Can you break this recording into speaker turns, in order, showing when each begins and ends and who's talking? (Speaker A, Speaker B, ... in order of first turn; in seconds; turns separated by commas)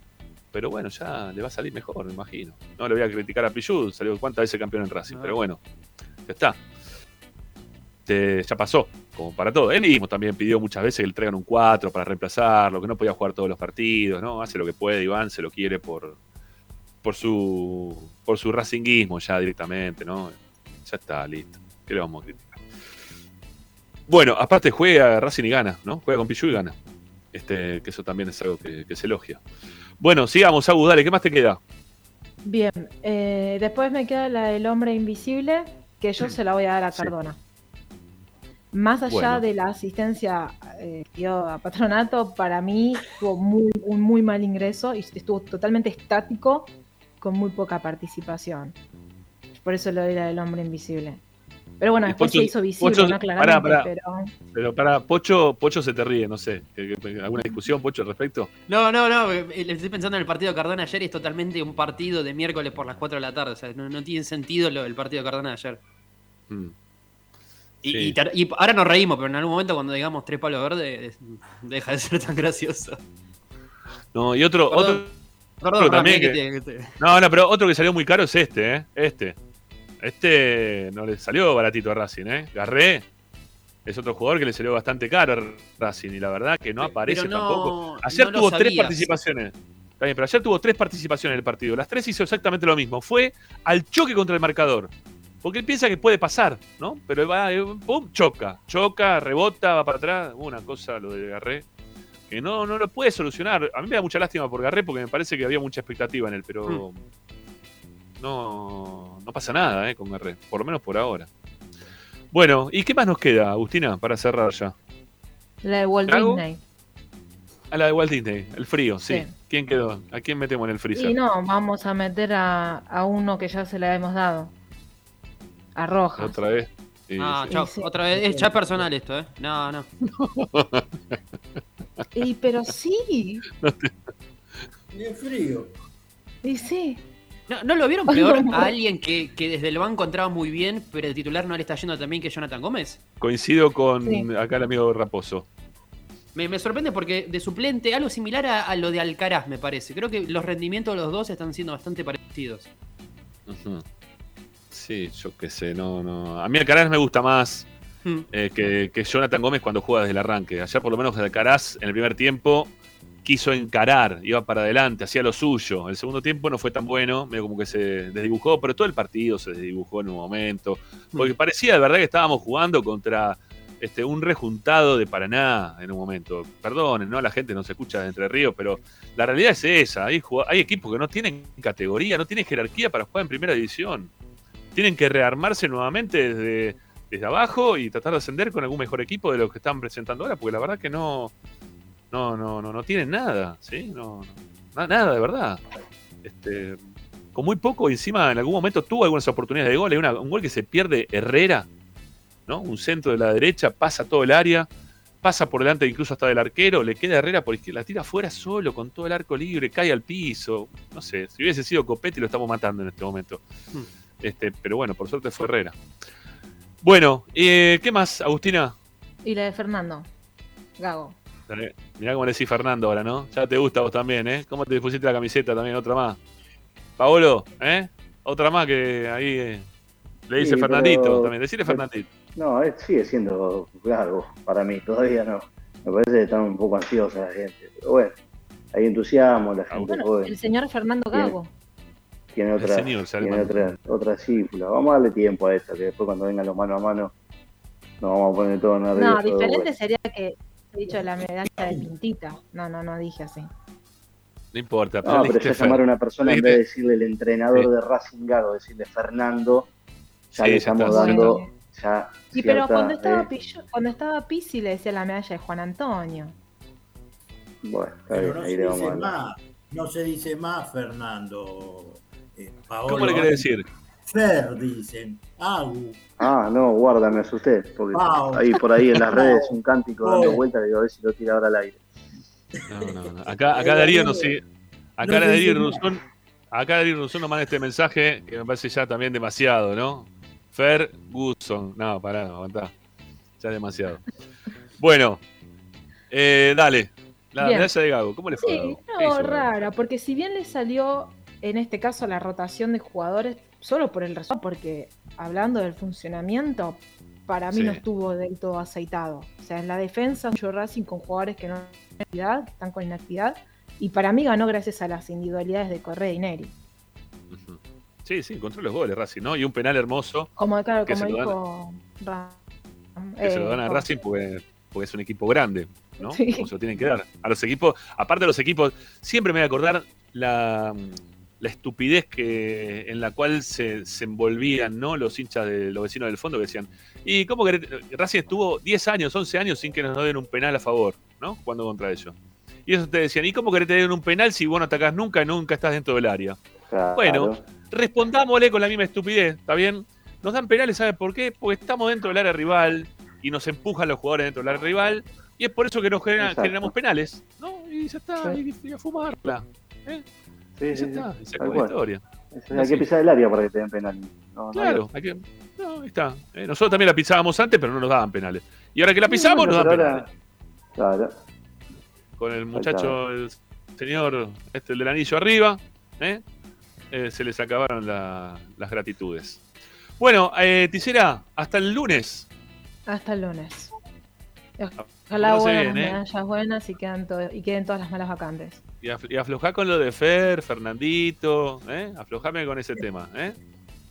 Speaker A: 0.5-5.6, Speaker B: 5.1-5.3, Speaker A: 6.2-6.6, Speaker A: 8.1-16.2, Speaker A: 17.0-22.6, Speaker A: 24.1-26.7, Speaker A: 27.3-29.4, Speaker A: 30.0-31.6, Speaker C: 32.4-37.4, Speaker C: 38.7-48.7, Speaker A: 39.1-39.4, Speaker C: 49.5-51.2, Speaker C: 51.8-54.3, Speaker A: 52.0-53.9, Speaker A: 54.5-58.5, Speaker B: 58.7-65.8, Speaker B: 67.8-73.0, Speaker A: 67.8-68.2, Speaker A: 74.1-75.1, Speaker B: 74.7-75.0, Speaker B: 75.6-76.9, Speaker A: 75.8-76.4, Speaker A: 77.0-79.4, Speaker A: 80.0-83.0, Speaker A: 83.8-94.9, Speaker B: 86.8-89.1, Speaker A: 95.4-101.7, Speaker A: 102.3-107.0, Speaker A: 108.2-111.3, Speaker A: 112.3-114.7, Speaker C: 115.6-116.6, Speaker A: 116.1-116.4, Speaker A: 117.7-121.2, Speaker C: 119.0-119.3, Speaker C: 120.9-124.5, Speaker C: 125.8-126.4, Speaker A: 126.2-127.5, Speaker B: 127.2-129.9, Speaker C: 127.5-127.9, Speaker A: 130.0-131.2, Speaker C: 132.1-133.4, Speaker A: 133.6-133.9, Speaker D: 134.9-135.7, Speaker C: 136.4-137.0, Speaker B: 137.5-143.0, Speaker C: 138.1-138.7, Speaker A: 143.2-145.4, Speaker B: 146.3-152.7, Speaker A: 153.5-153.8, Speaker A: 154.7-157.7, Speaker A: 158.3-162.7, Speaker A: 163.2-184.1, Speaker A: 184.7-191.3, Speaker A: 192.1-195.6, Speaker A: 196.2-196.8, Speaker A: 197.3-201.7, Speaker A: 202.5-204.7, Speaker A: 205.2-213.4, Speaker A: 214.2-215.8, Speaker A: 216.8-218.7, Speaker C: 219.2-220.1, Speaker C: 220.8-221.2, Speaker A: 221.5-226.2, Speaker A: 227.0-229.7, Speaker A: 230.3-232.1, Speaker E: 230.4-238.2, Speaker E: 238.7-240.3, Speaker A: 239.7-240.0, Speaker C: 239.9-241.5, Speaker E: 242.3-247.1, Speaker A: 242.6-243.8, Speaker E: 248.0-249.7, Speaker C: 248.9-253.5, Speaker D: 251.6-251.9, Speaker A: 254.5-256.6, Speaker E: 255.0-259.7, Speaker A: 260.3-261.4, Speaker E: 260.3-263.3, Speaker C: 260.9-261.5, Speaker C: 262.3-266.3, Speaker E: 267.6-269.1, Speaker D: 268.1-273.6, Speaker A: 272.9-273.6, Speaker D: 274.1-276.1, Speaker E: 276.2-281.8, Speaker D: 277.9-279.5, Speaker D: 280.0-280.4, Speaker A: 282.7-284.4, Speaker D: 283.5-284.3, Speaker A: 285.0-292.7, Speaker D: 285.0-285.8, Speaker A: 293.4-294.0, Speaker A: 294.8-295.2, Speaker A: 296.1-299.7, Speaker C: 297.4-297.7, Speaker C: 298.4-316.5, Speaker A: 307.5-307.8, Speaker A: 317.3-320.3, Speaker C: 320.4-322.4, Speaker A: 320.8-321.4, Speaker C: 322.9-323.9, Speaker A: 323.2-342.1, Speaker C: 326.0-326.5, Speaker A: 342.6-346.4, Speaker E: 346.7-347.4, Speaker A: 346.9-360.0, Speaker E: 356.2-356.7, Speaker E: 360.6-361.7, Speaker A: 360.7-362.9, Speaker E: 362.3-364.9, Speaker A: 364.5-370.1, Speaker E: 369.1-370.1, Speaker E: 370.8-371.1, Speaker A: 372.2-376.2, Speaker E: 372.5-372.9, Speaker A: 376.9-379.4, Speaker A: 380.0-382.3, Speaker C: 382.9-383.7, Speaker C: 384.6-388.6, Speaker A: 384.8-386.0, Speaker A: 388.8-393.4